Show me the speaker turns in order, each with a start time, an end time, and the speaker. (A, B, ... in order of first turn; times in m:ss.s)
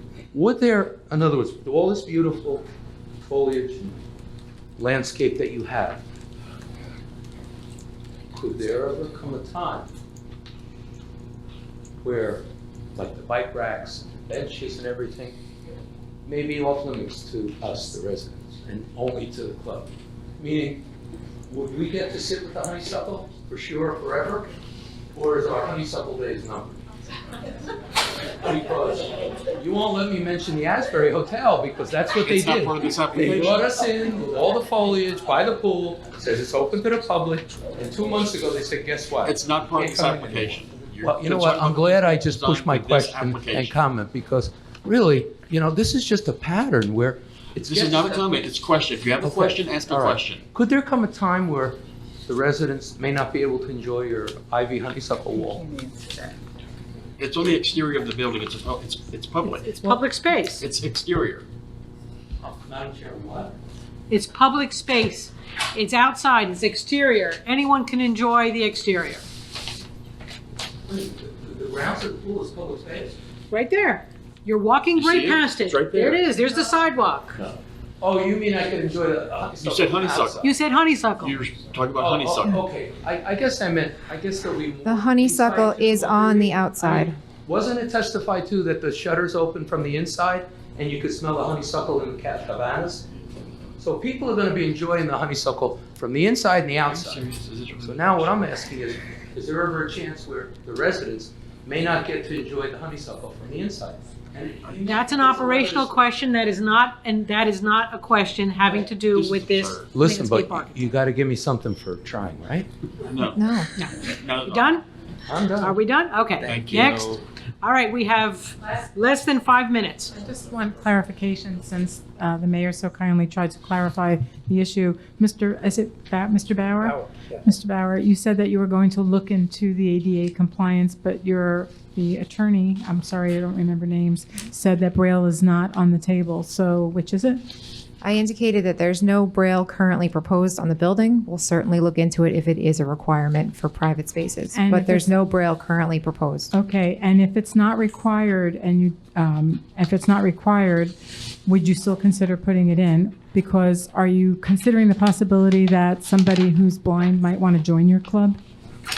0:00.3-0:02.6 A
0:03.2-0:04.0 A
0:04.8-0:06.0 A
0:08.3-0:09.9 A
0:12.0-0:15.4 A
0:16.2-0:20.8 A
0:21.5-0:24.5 A
0:25.1-0:26.8 A
0:28.4-0:48.4 A
0:32.2-0:33.7 B
0:39.2-0:43.8 B
0:47.6-0:50.4 B
0:49.2-0:55.7 A
0:57.2-0:59.8 B
0:59.6-1:00.6 C
1:00.6-1:01.5 B
1:02.4-1:03.5 A
1:04.1-1:09.2 C
1:10.8-1:13.2 A
1:13.5-1:17.4 C
1:14.9-1:16.2 B
1:18.0-1:20.5 A
1:19.6-1:20.5 B
1:20.4-1:21.4 C
1:21.2-1:22.6 B
1:21.9-1:33.0 A
1:24.8-1:27.2 D
1:33.8-1:37.2 A
1:36.8-1:38.4 B
1:37.8-1:46.0 A
1:44.6-1:45.0 B
1:44.8-1:50.8 C
1:48.7-1:49.9 B
1:49.9-1:52.7 A
1:53.0-1:53.4 B
1:53.3-1:53.7 D
1:53.8-1:54.8 C
1:54.0-1:54.8 B
1:55.3-1:55.8 A
1:55.6-2:00.2 C
1:56.4-1:57.2 B
2:00.1-2:17.4 E
2:06.8-2:07.4 A
2:18.0-2:26.5 D
2:24.5-2:25.1 E
2:26.5-2:38.4 E